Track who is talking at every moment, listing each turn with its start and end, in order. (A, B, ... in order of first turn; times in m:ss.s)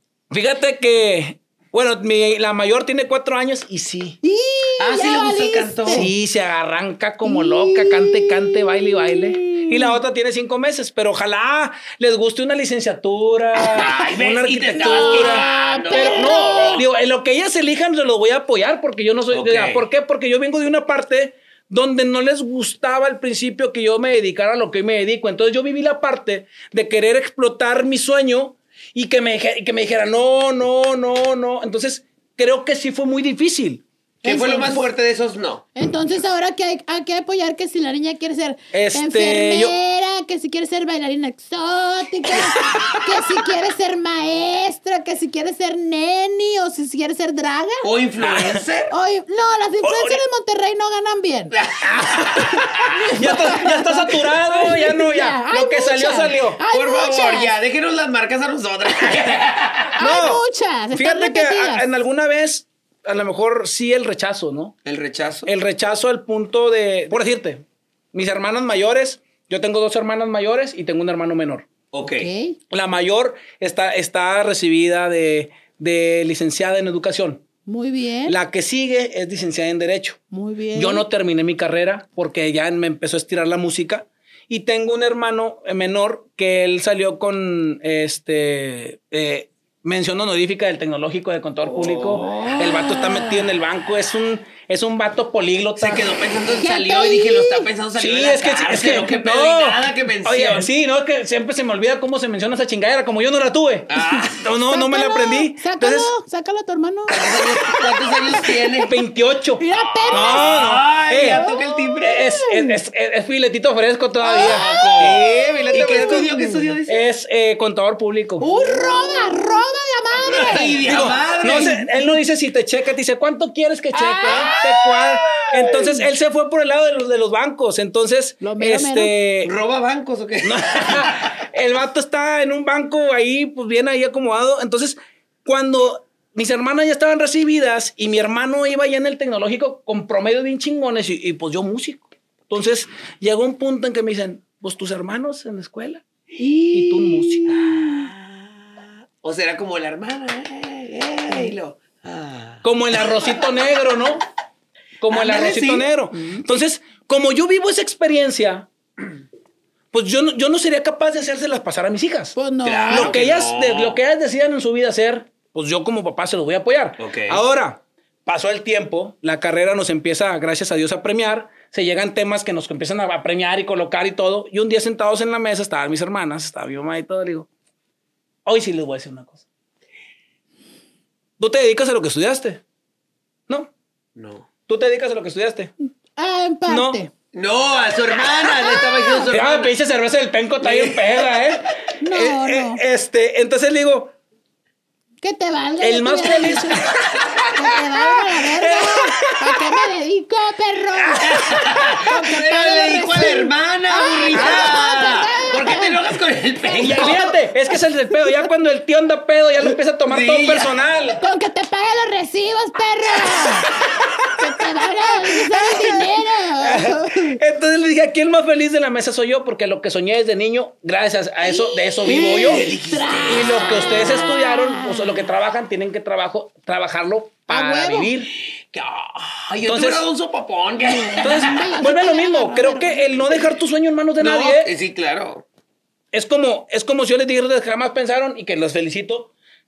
0:00.3-0:04.2 A
0:04.2-0:06.1 B
0:04.8-0:06.1 C
0:05.9-0:33.8 A
0:07.2-0:10.0 B
0:13.6-0:16.8 C
0:14.8-0:16.8 B
0:19.3-0:19.8 C
0:34.2-0:34.9 B
0:34.2-0:35.7 C
0:35.8-0:47.8 B
0:38.7-0:39.8 A
0:47.8-0:48.9 C
0:48.2-0:48.6 A
0:48.9-0:51.6 B
0:49.8-0:50.2 A
0:51.5-0:53.1 C
0:51.8-0:52.6 A
0:52.3-0:57.5 B
0:53.1-0:56.6 A
0:56.7-1:00.0 C
1:00.0-1:00.4 A
1:00.0-1:01.9 B
1:00.9-1:04.7 A
1:04.8-1:05.5 C
1:05.5-1:11.7 A
1:11.9-1:12.3 C
1:12.0-1:12.6 B
1:12.7-1:17.4 A
1:17.7-1:18.4 B
1:18.3-1:20.2 A
1:20.3-1:21.0 B
1:20.8-1:36.1 A
1:31.7-1:33.4 C
1:35.8-1:40.7 C
1:36.5-1:37.7 B
1:38.0-1:46.1 A
1:43.9-1:44.4 C
1:44.0-1:48.8 B
1:47.1-1:48.9 C
1:48.8-1:51.4 A
1:49.6-1:52.8 B
1:49.7-1:52.2 C
1:52.0-1:56.3 A
1:54.2-1:56.7 B
1:54.3-1:57.0 C
1:56.9-1:58.4 A
1:58.4-2:01.9 B
1:58.6-1:59.1 C
2:00.3-2:01.8 C
2:00.8-2:09.5 A
2:03.9-2:04.7 B
2:04.3-2:05.5 C
2:05.3-2:06.0 B
2:08.4-2:09.1 B
2:09.4-2:11.4 C
2:10.4-2:26.0 A
2:26.4-2:33.6 C
2:26.4-2:28.1 B
2:26.7-2:27.5 A
2:32.6-2:34.2 A
2:35.0-2:38.7 A
2:35.1-2:35.9 C
2:39.9-2:42.4 A
2:42.4-2:43.2 B
2:42.6-2:44.0 C
2:42.9-2:57.5 A
2:47.0-2:47.4 C
2:58.5-2:59.4 A
3:01.4-3:02.6 A
3:04.2-3:04.5 C
3:04.7-3:05.7 A
3:06.2-3:07.1 B
3:06.7-3:07.0 A
3:07.3-3:09.7 C
3:08.6-3:09.3 B
3:09.3-3:14.1 A
3:10.6-3:11.4 C
3:12.0-3:12.8 B
3:15.2-3:16.9 B
3:15.8-3:17.1 A
3:17.5-3:26.0 B
3:17.7-3:19.7 A
3:21.0-3:21.9 A
3:21.2-3:27.4 C
3:24.3-3:24.7 A
3:26.7-3:31.2 A
3:30.1-3:30.8 C
3:31.2-3:33.7 B
3:34.4-3:37.4 B
3:35.3-3:42.7 A
3:41.4-3:45.2 B
3:42.1-3:43.9 C
3:43.2-3:48.3 A
3:47.5-3:48.1 B
3:48.7-3:51.7 C
3:49.6-3:50.0 A
3:50.8-3:53.5 B
3:51.2-3:54.7 A
3:54.2-3:55.4 C
3:56.1-3:59.3 A